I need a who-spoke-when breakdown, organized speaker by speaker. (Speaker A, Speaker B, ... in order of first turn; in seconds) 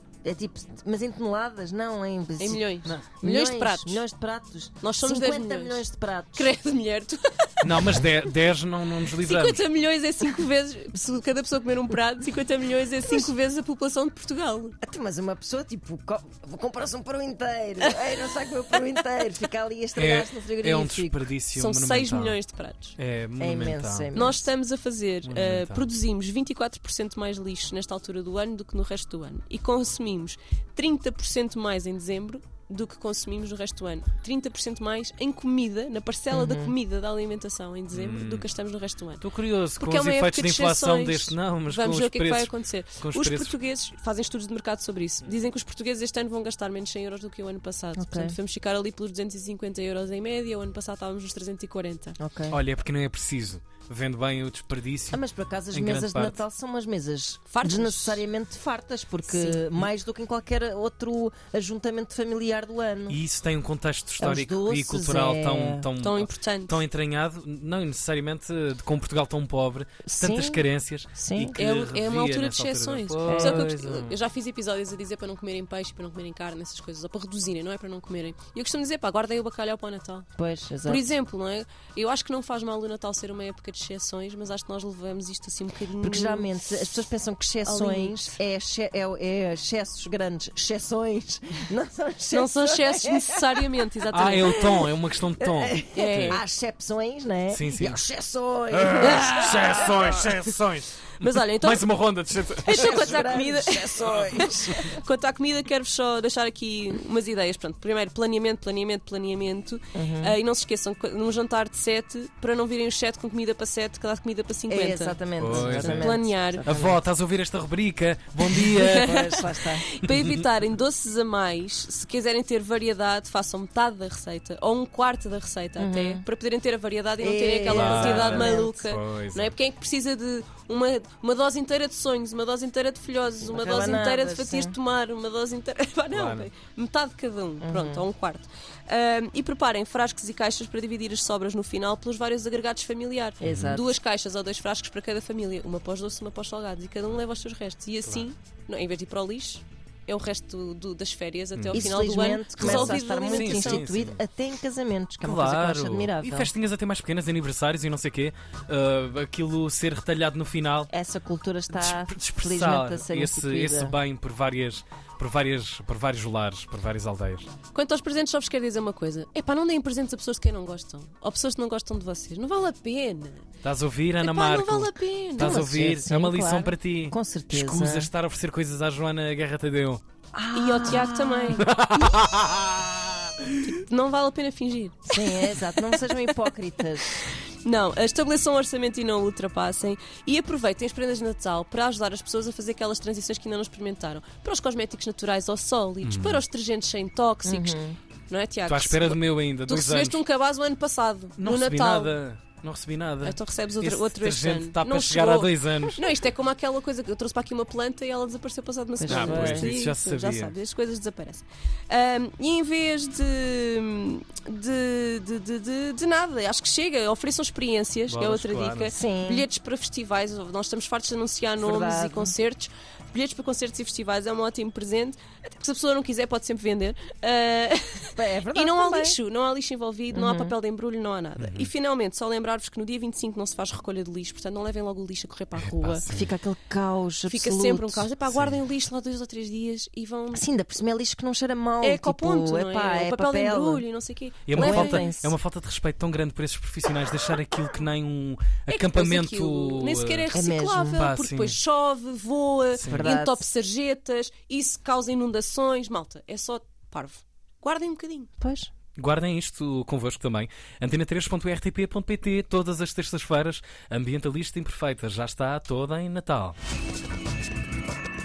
Speaker A: 0.2-6.5, 14.8-21.2, 23.4-24.5, 36.3-36.7, 48.0-48.4, 52.2-52.6, 55.1-63.2, 64.2-65.9, 70.0-71.6, 73.2-73.7, 80.4-81.1, 86.0-99.9, 102.7-105.0, 109.9-110.4, 114.7-117.0, 118.8-119.9, 125.8-126.2, 127.2-128.8, 133.4-134.8, 137.6-138.1, 143.4-143.9, 151.7-156.5, 160.9-164.0, 175.4-178.1, 180.3-182.2, 185.1-187.3, 197.4-198.0, 209.0-209.7, 218.9-219.5, 221.6-222.4, 228.2-229.2, 230.1-230.6, 236.1-238.1, 240.3-243.8, 244.5-245.3, 250.3-251.1, 252.8-253.5, 258.4-258.7
Speaker B: 2.4-4.0, 4.8-8.1, 9.1-14.8, 21.6-23.0, 24.1-39.3, 39.8-52.2, 57.5-58.2, 59.2-59.7, 66.0-66.8, 71.5-80.3, 80.8-86.5, 87.7-88.4, 92.3-94.6, 95.9-96.4, 99.0-99.7, 101.2-101.9, 102.6-116.7, 118.6-153.9, 167.7-173.5, 174.2-175.6, 180.6-181.7, 183.6-186.4, 187.6-202.2, 203.2-236.1, 237.3-240.5, 241.8-245.1, 248.7-258.3
Speaker C: 7.6-9.6, 20.0-22.4, 23.0-24.1, 25.2-25.9, 37.9-38.5, 39.2-43.6, 52.5-56.4, 63.1-74.2, 94.1-96.4, 97.5-98.0, 98.7-103.3, 104.0-104.6, 115.4-119.1, 120.1-120.4, 127.7-129.5, 136.1-136.5, 143.4-143.8, 151.6-154.2, 155.2-160.9, 161.7-167.5, 173.6-180.0, 180.9-183.6, 196.0-196.4, 198.7-200.2, 201.4-206.1, 209.1-210.5, 218.1-218.9, 231.4-231.7, 235.6-236.3, 238.3-238.6, 244.5-250.3, 250.9-251.6, 252.8-253.1, 259.0-266.6